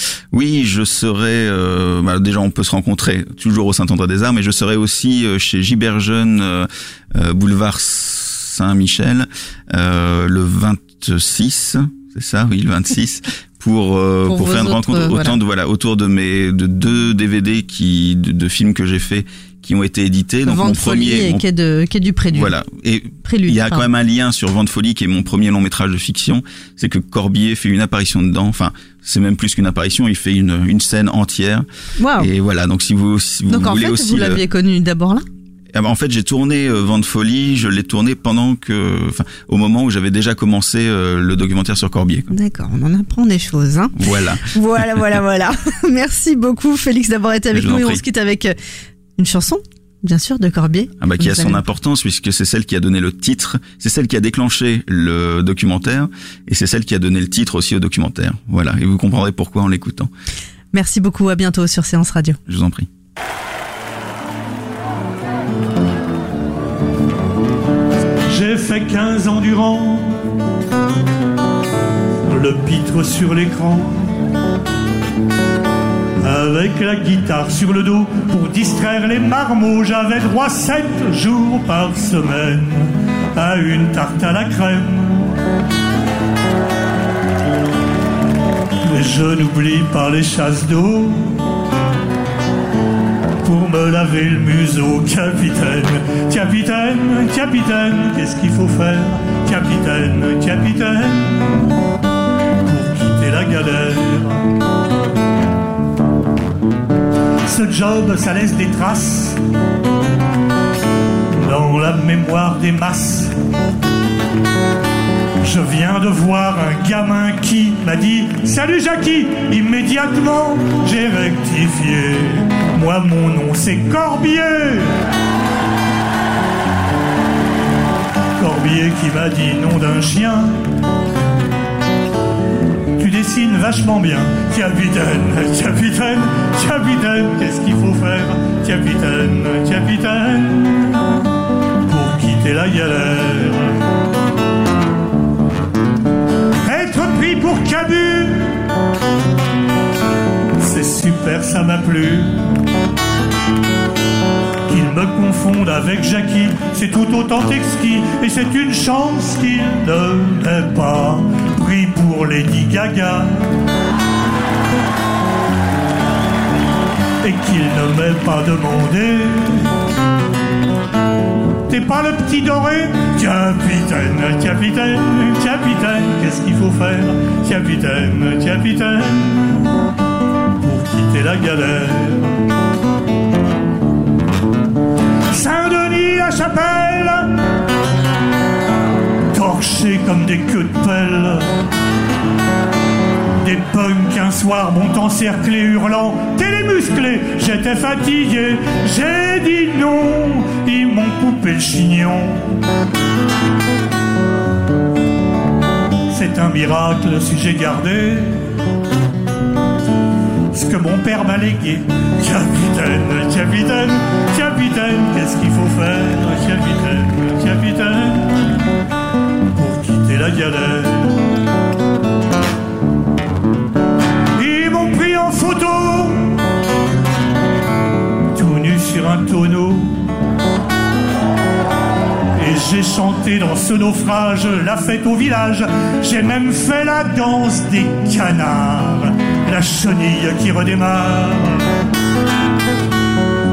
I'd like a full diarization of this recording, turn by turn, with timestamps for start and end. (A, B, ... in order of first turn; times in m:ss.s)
0:00.3-0:21.4 A
0:14.3-0:15.4 B
0:20.4-0:22.6 B
0:22.3-0:31.6 A
0:23.2-0:23.8 B
0:32.0-0:32.3 B
0:32.2-0:34.4 A
0:33.5-0:35.2 B
0:35.7-0:42.3 A
0:42.3-0:48.5 B
0:44.0-0:44.5 A
0:47.5-0:48.0 A
0:49.2-0:51.6 B
0:51.0-1:00.1 A
1:00.7-1:02.4 B
1:02.5-1:02.9 A
1:08.3-1:10.2 C
1:12.3-1:14.2 C
1:16.2-1:25.4 C
1:28.8-1:31.5 C
1:33.4-1:41.4 C
1:42.6-1:44.4 C
1:47.4-1:49.4 C
1:51.3-1:53.3 C
1:55.4-2:05.0 C
2:08.4-2:10.6 C
2:13.0-2:21.2 C
2:21.8-2:23.8 C
2:26.6-2:28.7 C
2:30.6-2:32.4 C
2:34.7-2:43.5 C
2:47.2-2:49.7 C
2:51.7-2:59.6 C
3:00.6-3:02.4 C
3:05.3-3:07.4 C
3:09.3-3:11.5 C
3:13.4-3:22.5 C
3:26.1-3:28.6 C
3:30.5-3:38.3 C
3:39.5-3:41.2 C
3:44.4-3:46.4 C
3:48.3-3:50.1 C
3:52.4-4:01.6 C